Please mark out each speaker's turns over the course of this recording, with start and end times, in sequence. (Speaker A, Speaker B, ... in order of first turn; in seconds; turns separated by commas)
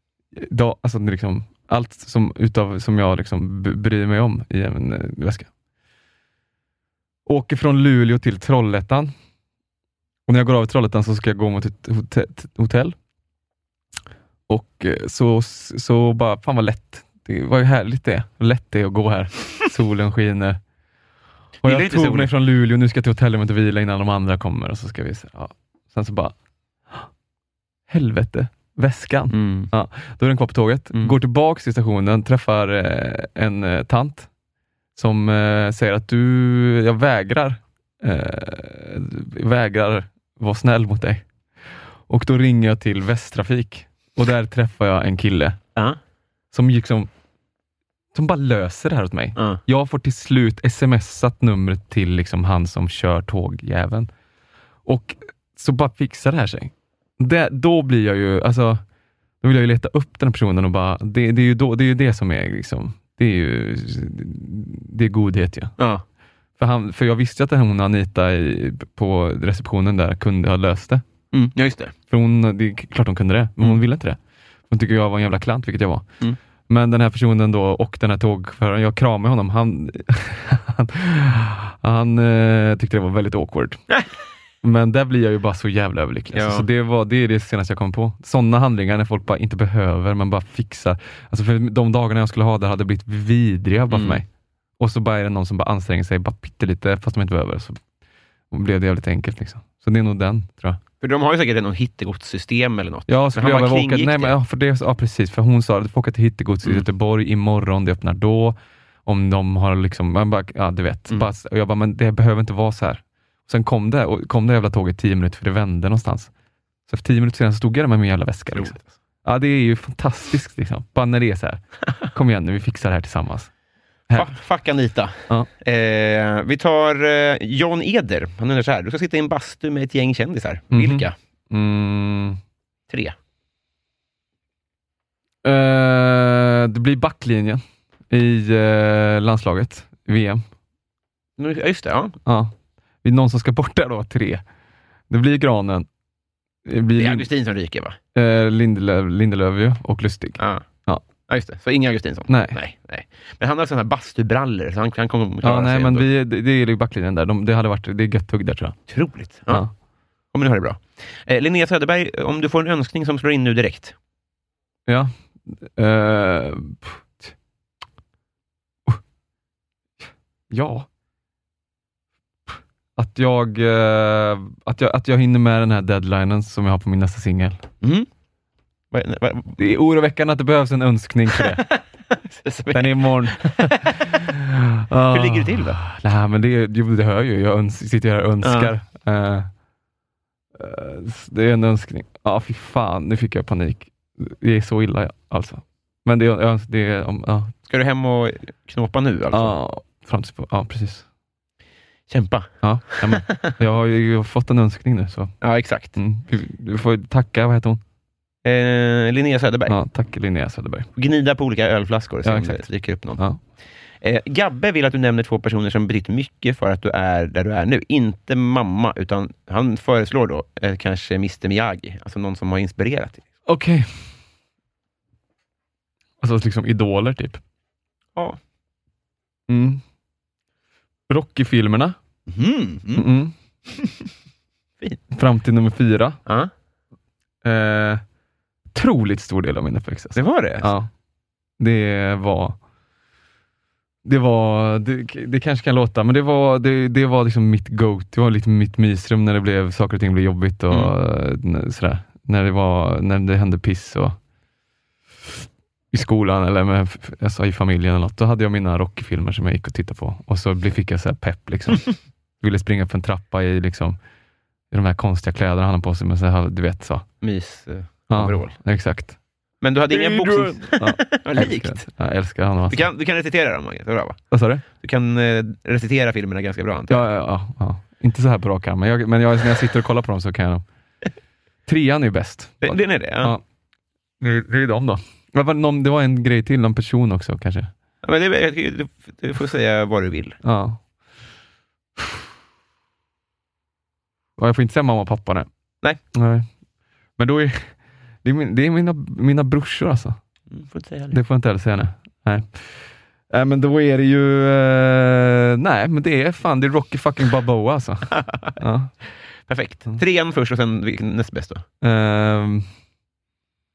Speaker A: 0.3-5.5, Speaker A: 7.2-9.1, Speaker A: 10.3-12.9, Speaker A: 14.5-20.6, Speaker B: 21.6-22.3, Speaker A: 21.6-26.3, Speaker A: 27.9-34.3, Speaker B: 29.3-29.7, Speaker A: 34.9-41.2, Speaker A: 42.1-45.6, Speaker A: 46.5-47.1, Speaker A: 48.1-54.1, Speaker B: 49.4-49.6, Speaker A: 54.8-58.8, Speaker A: 59.4-65.7, Speaker B: 65.8-66.0, Speaker A: 66.6-71.0, Speaker B: 71.3-71.9, Speaker A: 72.1-74.2, Speaker A: 74.7-76.0, Speaker A: 76.7-83.8, Speaker A: 84.6-94.2, Speaker B: 86.3-86.7, Speaker B: 93.9-94.2, Speaker A: 94.8-97.8, Speaker A: 98.5-100.8, Speaker B: 101.0-104.3, Speaker A: 103.1-116.3, Speaker A: 116.9-123.5, Speaker B: 118.5-118.8, Speaker B: 124.1-131.1, Speaker A: 130.7-132.4, Speaker B: 132.9-133.1, Speaker A: 135.4-140.4, Speaker B: 141.4-142.2, Speaker A: 142.2-144.4, Speaker A: 145.1-145.9, Speaker A: 146.7-147.3, Speaker B: 147.0-148.0, Speaker A: 148.1-151.0, Speaker B: 150.4-150.6, Speaker B: 151.3-156.1, Speaker A: 152.3-152.6, Speaker A: 155.4-158.8, Speaker B: 158.9-159.6, Speaker B: 160.3-163.9, Speaker A: 164.9-167.3, Speaker A: 170.5-170.9, Speaker A: 172.5-177.6, Speaker B: 177.8-178.1, Speaker B: 178.9-179.6, Speaker A: 179.6-181.7, Speaker B: 181.7-184.0, Speaker A: 182.7-189.5, Speaker B: 185.1-185.8, Speaker B: 188.4-188.7, Speaker A: 190.6-197.5, Speaker B: 197.7-199.5, Speaker A: 199.3-201.1, Speaker B: 202.1-203.5, Speaker A: 202.6-205.3, Speaker B: 205.4-205.9, Speaker A: 205.9-207.8, Speaker B: 208.4-209.8, Speaker A: 209.7-210.8, Speaker B: 210.9-213.2, Speaker A: 212.2-212.6, Speaker B: 214.0-223.2, Speaker A: 223.4-224.1, Speaker A: 226.2-227.4, Speaker A: 229.5-229.8, Speaker A: 231.1-232.0, Speaker B: 232.3-233.0, Speaker A: 232.9-233.3, Speaker A: 235.1-236.2, Speaker B: 236.2-236.5, Speaker A: 237.4-238.0, Speaker A: 238.7-240.9, Speaker B: 240.1-240.7, Speaker A: 241.6-242.6, Speaker A: 244.0-254.2, Speaker A: 255.9-261.9, Speaker A: 262.4-264.0, Speaker A: 264.7-267.1, Speaker B: 267.2-268.5, Speaker A: 268.1-269.2, Speaker B: 269.6-271.9, Speaker A: 269.9-272.8, Speaker B: 272.7-277.0, Speaker A: 274.3-274.6, Speaker A: 276.9-280.6, Speaker A: 281.6-283.4, Speaker B: 282.6-283.3, Speaker A: 284.2-287.7, Speaker B: 288.0-290.4, Speaker A: 290.4-290.8, Speaker A: 294.4-295.5, Speaker A: 296.1-296.5, Speaker A: 297.2-300.2, Speaker B: 300.5-301.2, Speaker A: 301.1-308.9, Speaker B: 308.1-308.5, Speaker B: 309.5-311.6, Speaker A: 311.8-312.7